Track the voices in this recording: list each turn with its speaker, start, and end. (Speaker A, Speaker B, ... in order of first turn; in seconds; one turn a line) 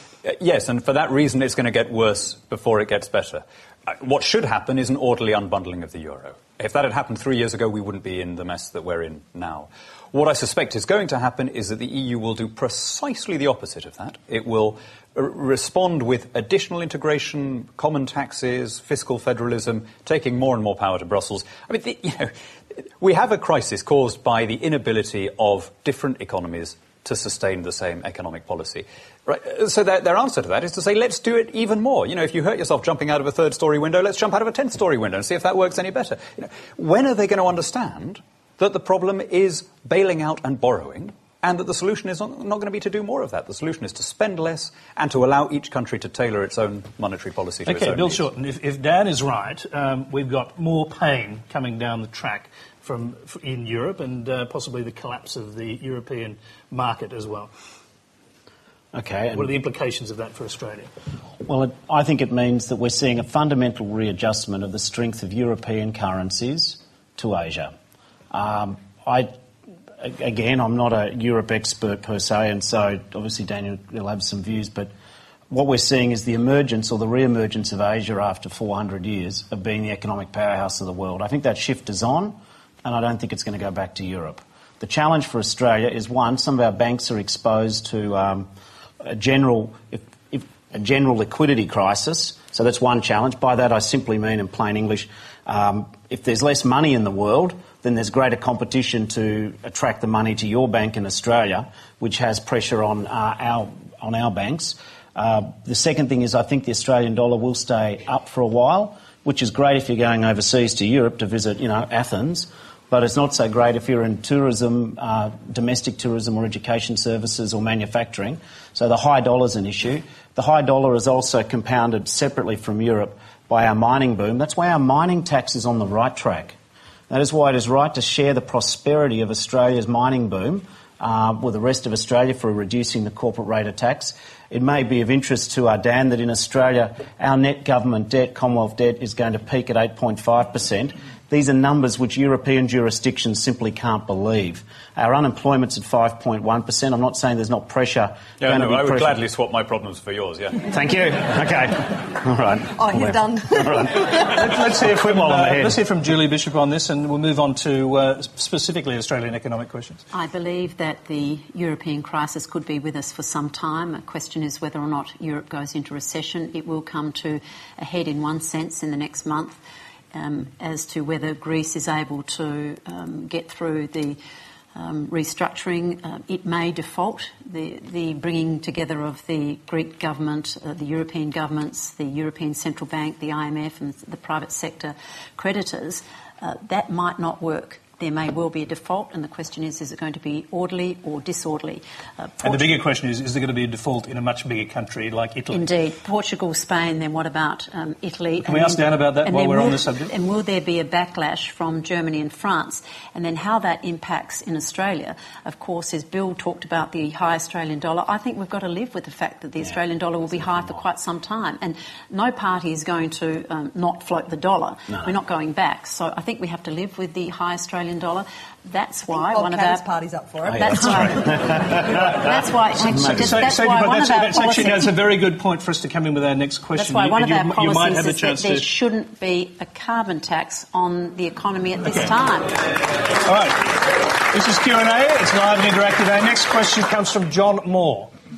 Speaker A: 0.2-48.2
Speaker B: 47.6-57.5
Speaker C: 58.9-59.5
Speaker B: 59.3-60.9
Speaker C: 61.4-67.7
Speaker C: 68.3-69.3
Speaker C: 70.0-74.9
Speaker C: 75.5-88.5
Speaker C: 89.0-126.5
Speaker C: 127.1-149.2
Speaker A: 148.4-150.7
Speaker C: 150.7-155.8
Speaker D: 152.9-153.6
Speaker B: 154.1-160.1
Speaker E: 160.1-169.6
Speaker E: 170.1-174.2
Speaker E: 174.7-192.7
Speaker B: 192.4-195.7
Speaker E: 195.5-219.9
Speaker B: 198.4-200.1
Speaker D: 219.1-220.5
Speaker C: 220.4-222.2
Speaker E: 220.5-224.9
Speaker C: 222.8-223.4
Speaker B: 223.1-228.7
Speaker E: 226.7-232.6
Speaker B: 231.8-232.1
Speaker B: 233.2-238.1